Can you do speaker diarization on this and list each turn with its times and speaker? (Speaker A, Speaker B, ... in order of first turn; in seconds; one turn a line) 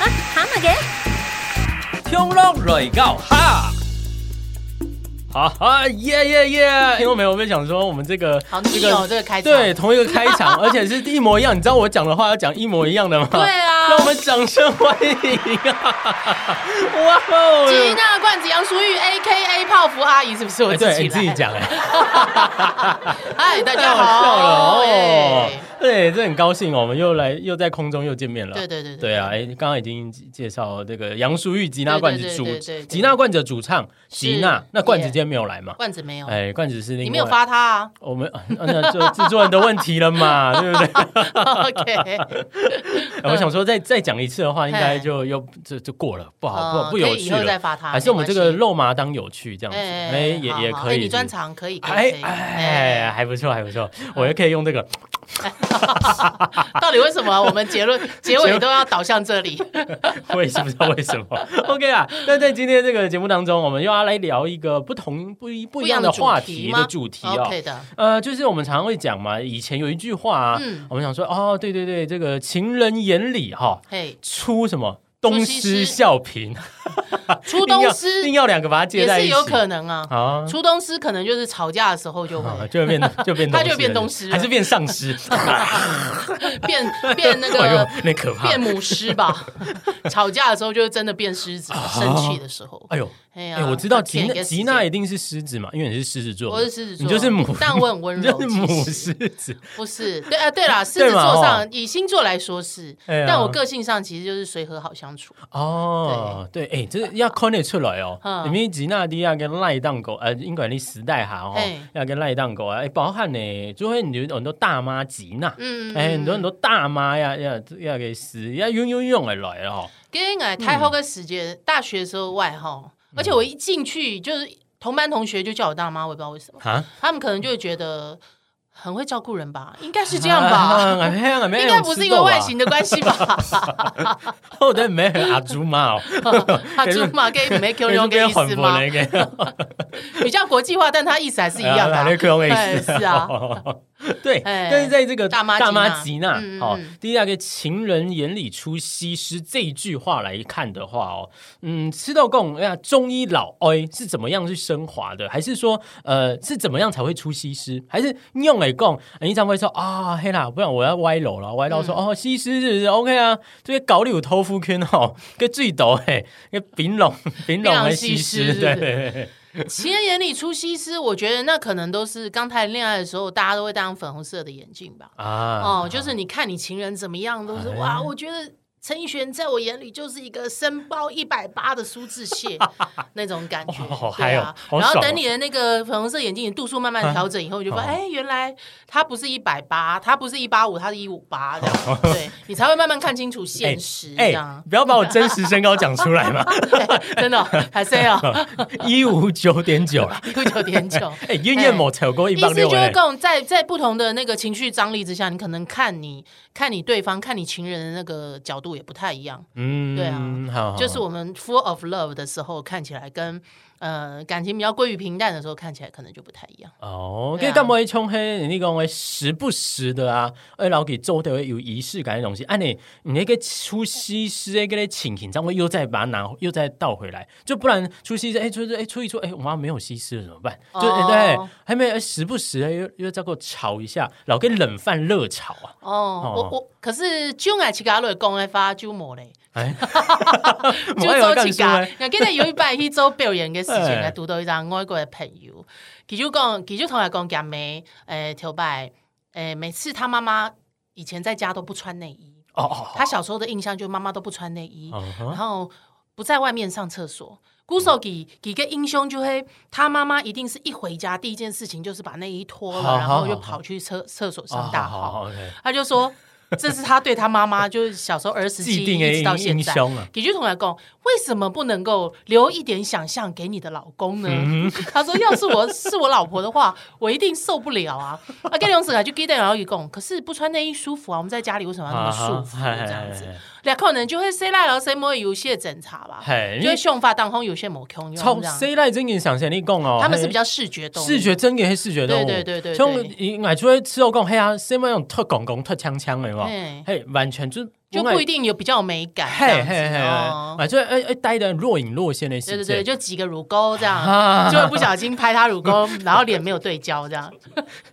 Speaker A: 0.1-0.8
Speaker B: 2.0-3.8
Speaker B: 5.3-18.0
Speaker A: 8.5-10.7
Speaker A: 13.3-14.1
Speaker A: 17.6-25.7
Speaker B: 20.7-37.4
Speaker A: 28.5-29.3
Speaker A: 31.9-33.2
Speaker A: 34.1-35.2
Speaker A: 35.8-36.4
Speaker A: 37.0-37.9
Speaker B: 38.0-51.3
Speaker A: 38.5-43.5
Speaker A: 44.7-45.1
Speaker A: 46.5-48.6
Speaker A: 49.7-53.1
Speaker B: 51.8-56.6
Speaker A: 55.5-60.2
Speaker B: 58.1-58.9
Speaker B: 60.0-80.5
Speaker A: 65.8-67.9
Speaker A: 70.5-70.9
Speaker A: 73.9-74.2
Speaker A: 75.2-76.0
Speaker A: 77.4-78.3
Speaker A: 78.9-84.7
Speaker B: 82.3-89.9
Speaker A: 85.2-94.8
Speaker B: 91.7-99.8
Speaker A: 96.5-99.1
Speaker A: 99.8-105.4
Speaker B: 100.8-101.7
Speaker B: 103.1-103.6
Speaker B: 105.5-119.9
Speaker A: 106.0-106.4
Speaker A: 108.2-108.6
Speaker A: 111.5-111.9
Speaker A: 115.6-116.5
Speaker A: 120.1-128.2
Speaker B: 120.6-120.9
Speaker B: 123.1-123.4
Speaker B: 126.6-126.9
Speaker A: 128.7-134.3
Speaker B: 130.1-133.9
Speaker B: 134.5-140.2
Speaker A: 135.2-135.5
Speaker A: 136.2-143.4
Speaker B: 141.6-169.8
Speaker A: 144.4-146.9
Speaker A: 161.7-162.0
Speaker A: 167.6-169.1
Speaker A: 169.6-195.5
Speaker B: 175.2-176.1
Speaker B: 177.5-178.1
Speaker B: 183.7-185.2
Speaker B: 187.0-188.0
Speaker B: 191.6-192.2
Speaker B: 193.6-203.0
Speaker A: 196.5-198.9
Speaker A: 200.0-216.7
Speaker B: 209.5-211.0
Speaker B: 216.8-236.5
Speaker A: 217.3-217.7
Speaker A: 230.7-231.5
Speaker A: 235.8-288.7
Speaker B: 239.5-242.6
Speaker B: 243.7-244.1
Speaker B: 252.5-253.1
Speaker B: 254.9-255.4
Speaker B: 262.7-263.6
Speaker B: 264.5-265.6
Speaker B: 268.6-270.1
Speaker B: 274.2-275.7
Speaker B: 281.9-283.4
Speaker B: 286.2-286.8
Speaker B: 288.1-290.4
Speaker A: 290.0-291.4
Speaker B: 290.9-298.2
Speaker A: 292.0-293.1
Speaker A: 296.4-296.9
Speaker A: 297.9-300.6
Speaker B: 299.2-302.9
Speaker A: 302.5-307.7
Speaker B: 303.8-305.0
Speaker B: 305.6-306.2